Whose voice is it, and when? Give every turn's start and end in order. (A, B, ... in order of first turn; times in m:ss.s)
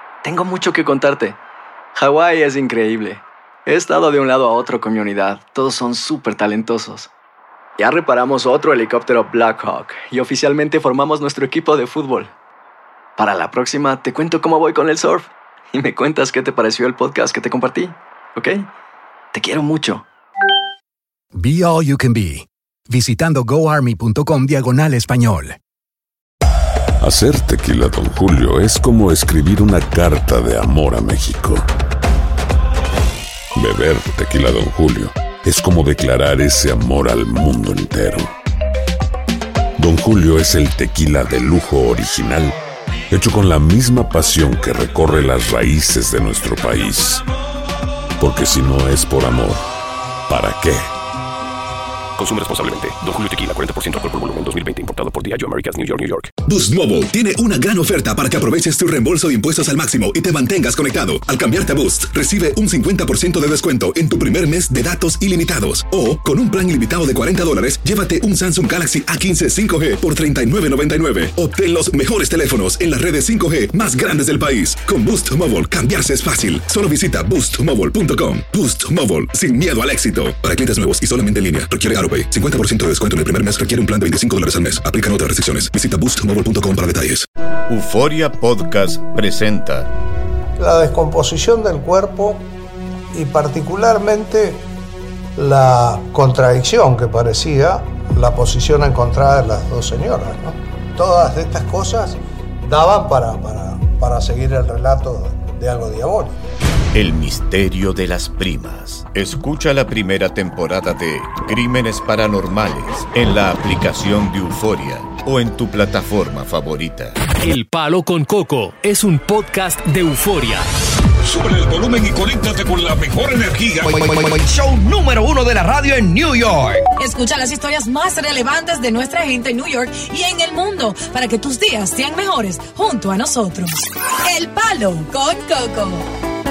0:00.2-0:01.4 A
0:02.0-0:07.1 A
0:07.8-0:12.3 A
0:13.2-0:18.7 A
0:19.3-0:20.0 A
0:21.3-0:25.6 B
0:27.0-0:31.7 C
0:33.6-0:38.3 C
0:39.8-0:42.6 C
0:43.1-0:47.2 C
0:48.2-0:49.6 C
0:50.3-0:50.8 C
0:52.2-0:56.3 D
0:56.4-1:27.3 E
1:27.7-1:29.9 F
1:30.6-1:32.5 G
1:33.1-1:34.6 G
1:35.4-1:46.4 G
1:46.9-1:57.3 F
1:57.4-2:00.7 H
2:01.2-2:04.0 I
2:03.8-2:06.9 J
2:07.0-2:16.1 K